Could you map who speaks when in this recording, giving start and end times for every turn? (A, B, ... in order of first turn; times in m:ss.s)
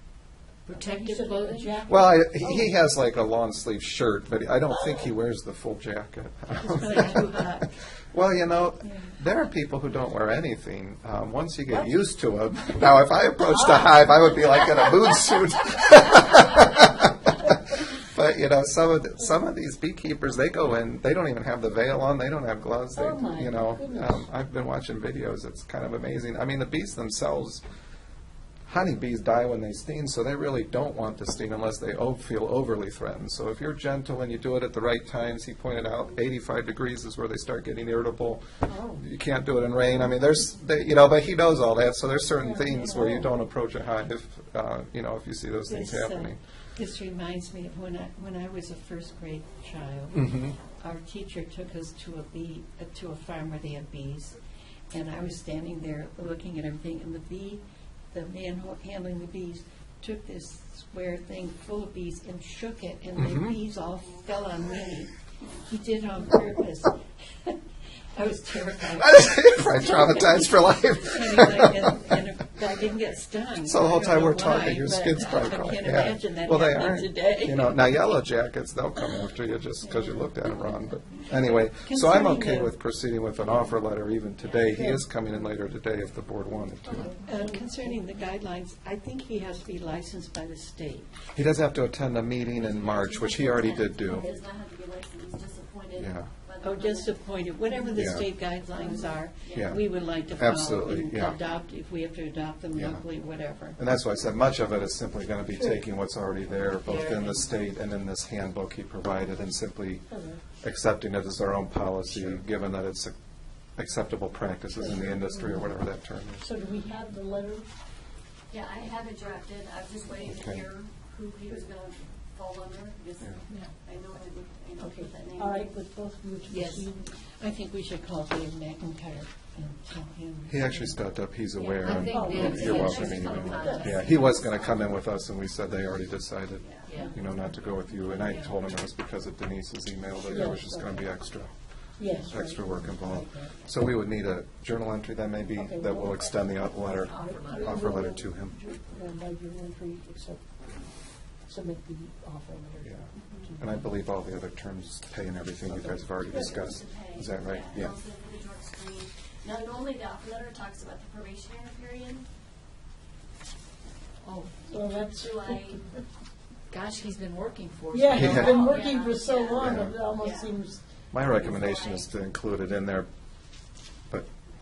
0:00.6-0:01.9 A
0:00.7-0:02.7 B
0:01.9-0:27.6 C
0:06.6-0:07.7 D
0:08.8-0:09.1 D
0:22.9-0:24.2 B
0:28.7-0:38.4 C
0:38.6-0:39.0 B
0:39.0-0:46.4 C
0:42.4-0:43.3 B
0:45.7-0:54.4 D
0:50.2-0:50.5 C
0:54.9-1:07.6 D
1:03.2-1:03.6 C
1:08.1-1:18.2 D
1:09.0-1:12.2 C
1:13.6-1:27.2 C
1:21.3-1:22.7 D
1:24.4-1:24.6 A
1:24.7-1:25.0 B
1:26.9-1:27.2 E
1:26.9-1:28.0 B
1:27.2-1:31.1 D
1:31.3-1:34.3 C
1:32.4-1:37.2 E
1:34.0-1:34.3 B
1:35.9-1:36.3 C
1:36.6-1:43.8 D
1:37.9-1:38.3 C
1:38.7-1:39.1 B
1:38.9-1:39.8 E
1:39.5-1:41.4 C
1:42.7-1:43.0 C
1:43.8-1:56.5 C
1:46.8-1:47.5 A
1:50.1-1:50.4 B
1:54.7-1:57.6 B
1:58.5-2:05.7 E
2:00.2-2:00.6 C
2:04.8-2:07.2 B
2:06.5-2:06.9 A
2:07.1-2:11.0 D
2:10.5-2:28.6 C
2:11.5-2:14.6 A
2:11.9-2:14.1 B
2:12.1-2:15.0 E
2:12.5-2:13.5 D
2:16.9-2:17.1 A
2:16.9-2:17.4 B
2:18.0-2:18.6 D
2:20.2-2:21.2 B
2:22.0-2:23.6 B
2:25.5-2:26.5 B
2:26.8-2:27.8 A
2:27.1-2:33.8 B
2:32.8-2:37.9 C
2:33.2-2:33.5 E
2:35.6-2:36.6 B
2:36.4-2:42.3 E
2:44.2-2:44.6 A
2:44.7-2:46.0 B
2:45.0-2:45.9 E
2:46.7-2:49.0 A
2:47.9-2:51.6 B
2:48.1-2:48.5 C
2:48.3-2:50.5 E
2:49.6-2:50.0 C
2:51.1-2:54.3 C
2:51.4-2:52.1 E